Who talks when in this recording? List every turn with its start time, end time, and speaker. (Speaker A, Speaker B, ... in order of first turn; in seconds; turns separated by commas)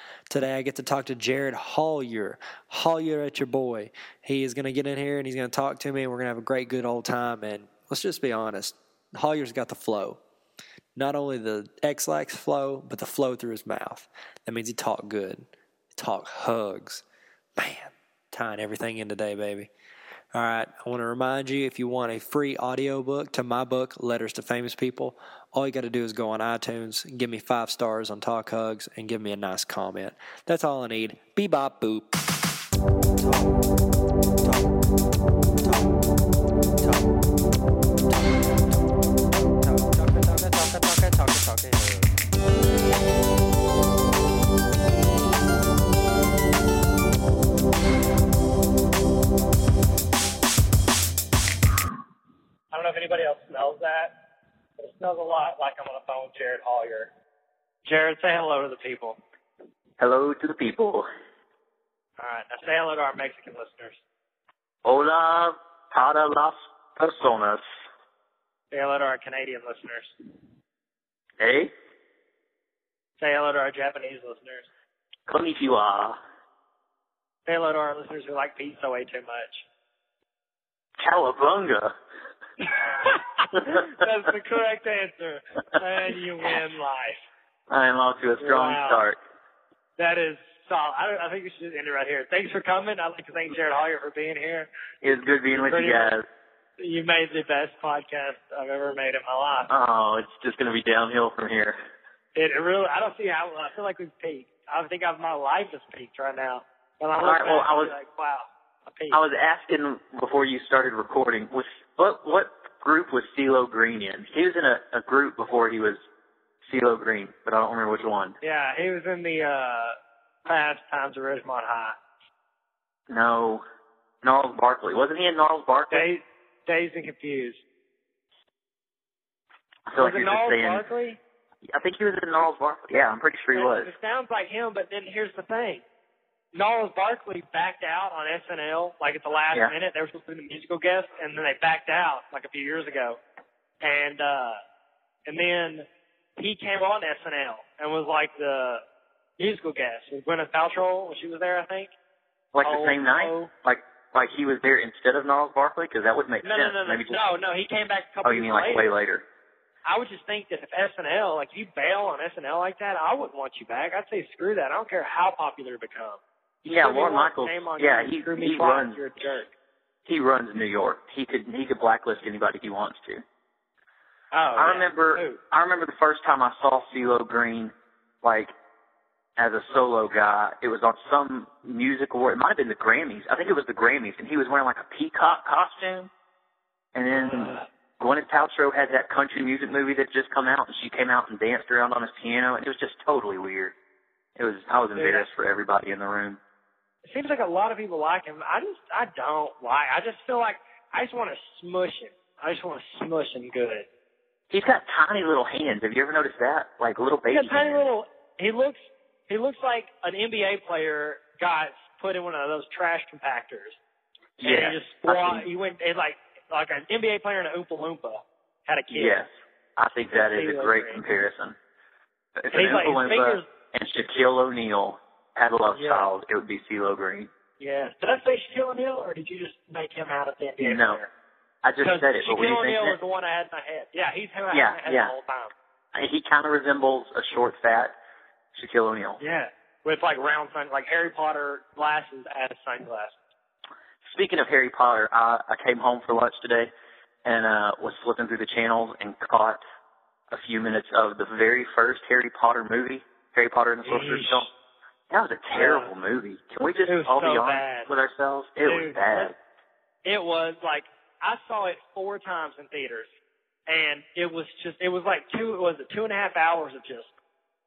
Speaker A: 0.3-10.2, Speaker A: 10.9-17.0, Speaker A: 17.6-19.7, Speaker A: 20.3-32.2, Speaker A: 33.1-33.6, Speaker A: 34.4-34.8, Speaker A: 35.6-36.0, Speaker A: 36.8-37.2, Speaker A: 38.0-42.1, Speaker B: 52.7-54.2, Speaker B: 54.8-57.1, Speaker B: 57.8-59.2, Speaker C: 60.0-61.1, Speaker B: 62.2-64.0, Speaker C: 64.8-67.6, Speaker B: 68.7-70.1, Speaker C: 71.4-71.7, Speaker B: 73.2-74.7, Speaker C: 75.3-76.2, Speaker B: 77.5-79.7, Speaker C: 81.0-81.9, Speaker B: 82.6-87.2, Speaker C: 83.5-83.8, Speaker C: 87.7-89.2, Speaker B: 88.4-89.0, Speaker B: 90.0-94.7, Speaker C: 95.0-96.2, Speaker B: 95.5-96.1, Speaker B: 96.8-99.7, Speaker C: 99.7-101.8, Speaker B: 102.3-109.2, Speaker C: 107.2-107.9, Speaker C: 109.1-116.0, Speaker C: 116.6-118.3, Speaker B: 118.4-122.0, Speaker C: 123.1-123.6, Speaker C: 124.2-126.0, Speaker B: 125.9-127.6, Speaker C: 129.9-130.8, Speaker B: 130.0-131.2, Speaker C: 131.6-133.9, Speaker B: 133.5-135.8, Speaker B: 136.5-143.2, Speaker B: 143.8-144.6, Speaker B: 145.2-145.9, Speaker B: 146.4-148.8, Speaker B: 149.4-151.9, Speaker C: 152.5-157.2, Speaker B: 152.6-153.5, Speaker B: 156.4-158.9, Speaker C: 158.2-159.2, Speaker B: 159.8-169.5, Speaker C: 166.7-169.0, Speaker C: 170.1-173.2, Speaker B: 174.3-175.4, Speaker C: 174.6-178.5, Speaker C: 179.4-186.1, Speaker C: 186.9-193.7, Speaker B: 187.1-187.6, Speaker C: 194.3-196.4, Speaker B: 194.9-195.3, Speaker B: 197.0-203.9, Speaker C: 204.5-207.8, Speaker B: 207.3-208.8, Speaker B: 209.3-213.8, Speaker C: 214.4-215.5, Speaker B: 214.4-219.2, Speaker C: 218.9-221.6, Speaker B: 220.1-221.0, Speaker C: 222.4-227.3, Speaker B: 222.5-223.4, Speaker B: 225.7-226.1, Speaker B: 227.6-231.1, Speaker C: 230.6-231.0, Speaker C: 231.6-233.0, Speaker B: 231.8-235.5, Speaker C: 234.5-235.1, Speaker C: 235.9-237.9, Speaker C: 238.5-239.2, Speaker B: 239.2-243.2, Speaker C: 244.0-246.7, Speaker C: 247.2-249.6, Speaker C: 250.3-254.5, Speaker B: 253.8-254.5, Speaker C: 255.1-259.3, Speaker B: 255.5-255.9, Speaker B: 256.9-257.9, Speaker B: 258.6-259.3, Speaker B: 260.0-263.1, Speaker B: 263.7-267.1